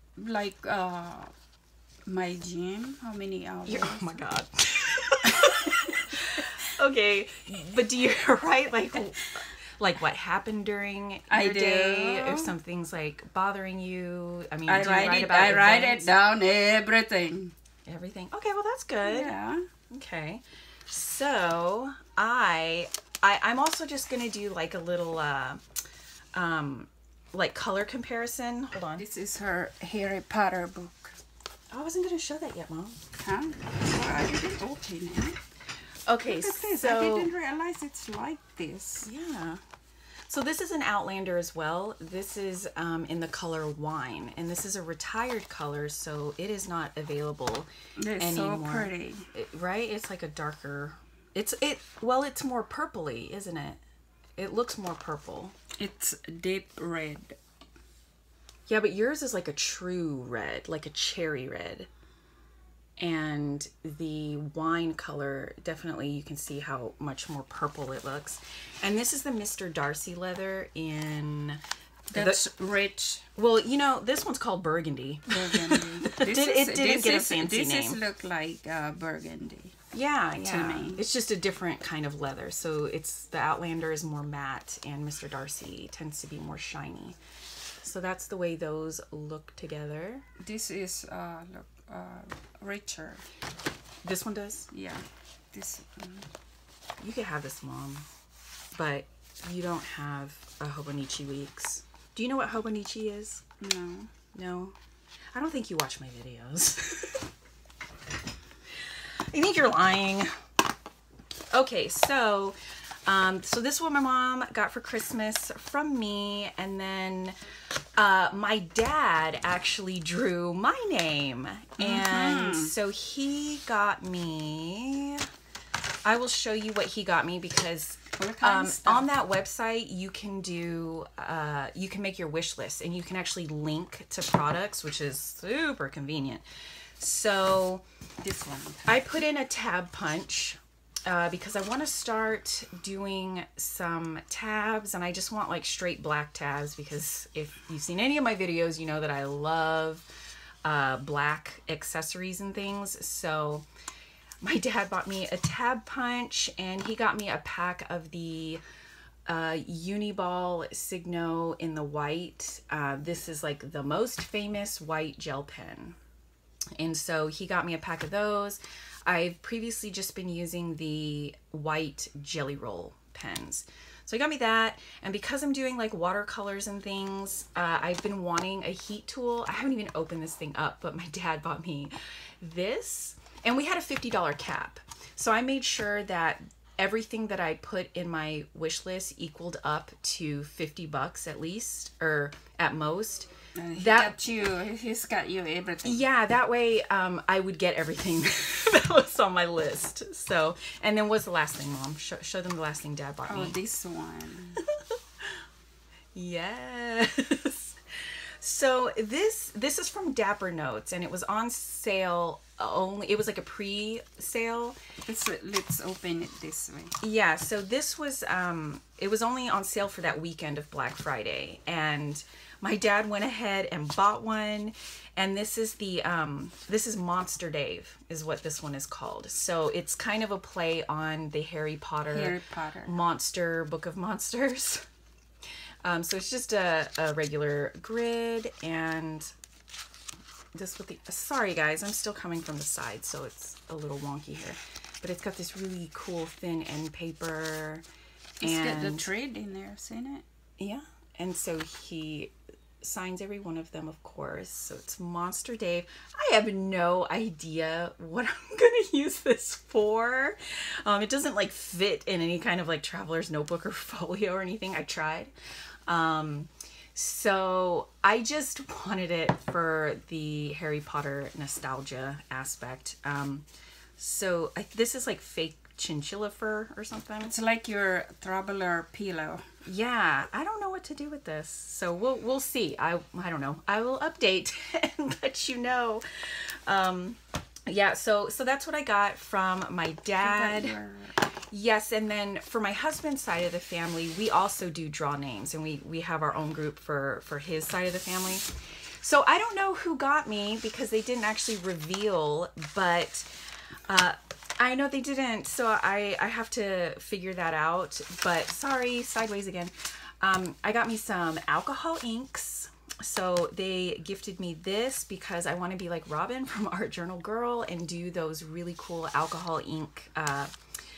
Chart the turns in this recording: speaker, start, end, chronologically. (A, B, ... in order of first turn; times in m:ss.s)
0:00.2-0:01.3 A
0:02.0-0:04.2 A
0:03.7-0:16.1 B
0:11.3-0:12.6 A
0:14.7-0:17.5 A
0:17.8-0:19.3 B
0:19.0-0:19.6 A
0:19.9-0:25.6 B
0:26.3-0:29.0 B
0:29.0-0:31.2 A
0:31.7-0:33.0 B
0:33.1-0:35.4 A
0:36.0-0:37.3 B
0:36.2-0:39.1 A
0:39.0-0:39.6 B
0:40.3-0:53.8 B
0:48.0-0:49.3 A
0:54.4-0:55.5 B
0:55.8-0:57.4 A
0:58.7-1:01.9 B
1:03.0-1:11.6 B
1:12.1-1:13.2 A
1:12.1-1:12.4 B
1:13.4-1:18.0 B
1:15.3-1:19.7 A
1:19.9-1:27.2 B
1:20.4-1:21.0 A
1:27.8-1:30.2 B
1:30.4-1:33.2 A
1:34.0-1:34.7 B
1:34.7-1:36.3 A
1:37.0-1:38.0 B
1:38.7-1:43.4 B
1:43.6-1:44.1 A
1:44.3-1:44.8 B
1:45.3-1:47.3 B
1:48.9-1:50.3 B
1:51.5-1:57.3 B
1:57.9-2:05.2 B
2:01.8-2:02.7 A
2:06.0-2:16.4 B
2:08.2-2:09.1 A
2:17.0-2:17.8 B
2:18.2-2:19.2 A
2:18.9-2:30.0 B
2:30.6-2:33.6 B
2:34.4-2:38.6 B
2:39.2-2:46.0 B
2:46.8-3:14.2 B
3:13.6-3:16.0 A
3:15.8-3:23.6 B
3:23.3-3:24.6 A
3:26.1-3:27.8 B
3:28.4-3:34.8 B
3:35.0-3:37.0 A
3:37.0-3:54.8 B
3:52.1-3:53.0 A
3:55.8-3:59.3 B
4:00.5-4:07.8 B
4:08.4-4:10.2 A
4:08.4-4:09.1 B
4:10.6-4:25.3 B
4:25.9-4:33.4 B
4:34.0-4:37.4 B
4:37.3-4:39.4 A
4:39.6-4:50.8 B
4:50.2-4:51.2 A
4:51.5-4:58.4 B
4:59.0-5:03.3 B
5:03.9-5:20.5 B